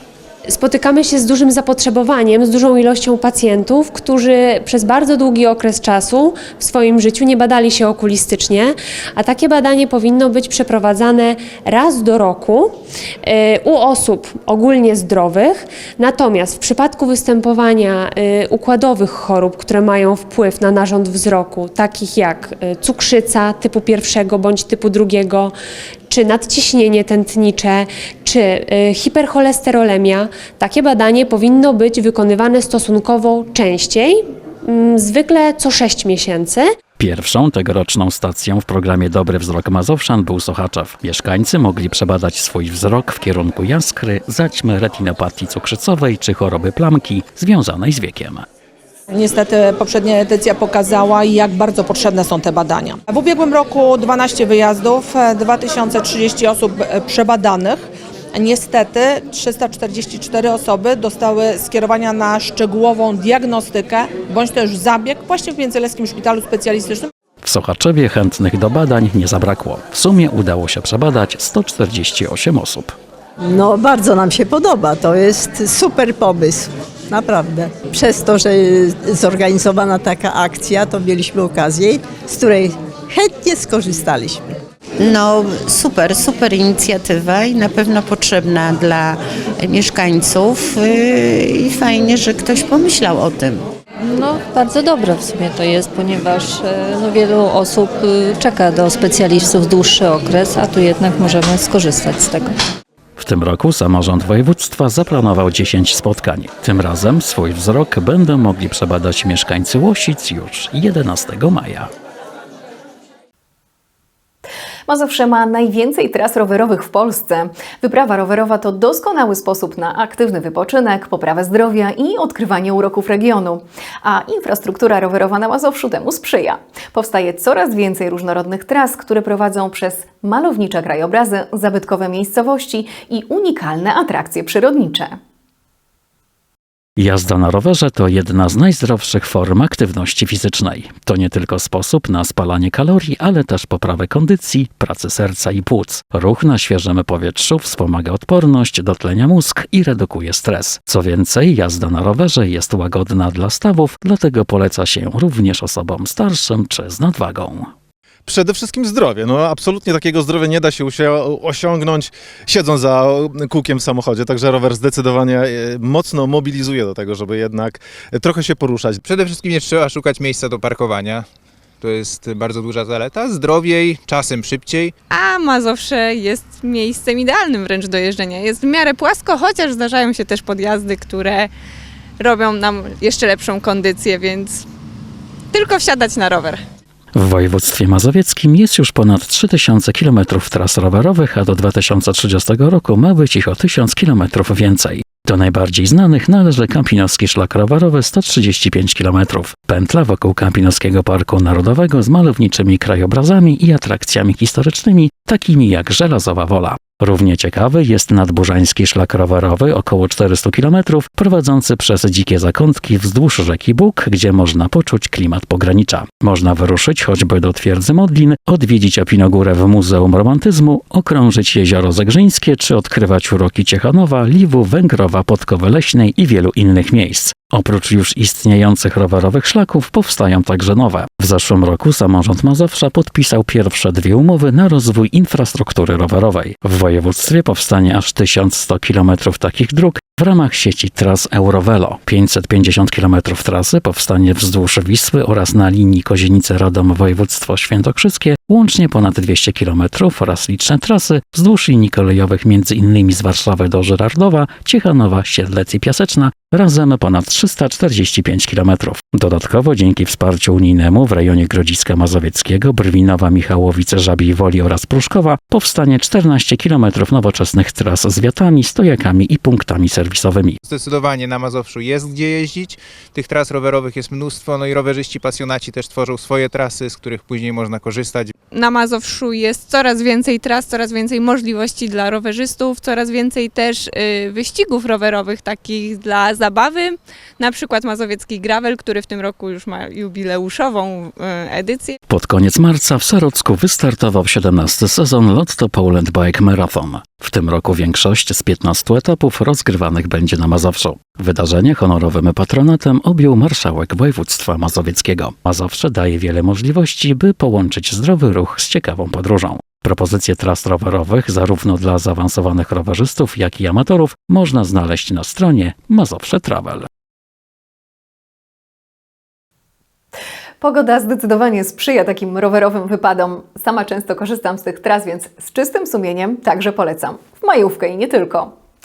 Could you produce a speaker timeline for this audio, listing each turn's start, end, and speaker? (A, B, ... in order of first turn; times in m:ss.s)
0:00.5-0:25.5 A
0:26.1-0:36.7 A
0:37.0-0:48.4 B
0:49.1-1:07.1 C
1:07.4-1:12.9 B
1:13.5-1:24.4 D
1:25.0-1:33.6 E
1:34.0-1:42.6 F
1:43.2-1:51.9 B
1:54.9-2:15.1 G
2:17.0-2:37.7 B
2:38.2-2:49.0 H
2:49.0-2:51.2 I
2:51.8-2:54.9 I
2:55.1-3:01.5 J
3:02.2-3:04.6 J
3:05.5-3:06.6 J
3:07.1-4:30.6 B
4:30.6-4:38.3 I
4:38.5-4:52.0 J
4:52.1-5:16.8 B
5:20.6-5:28.5 G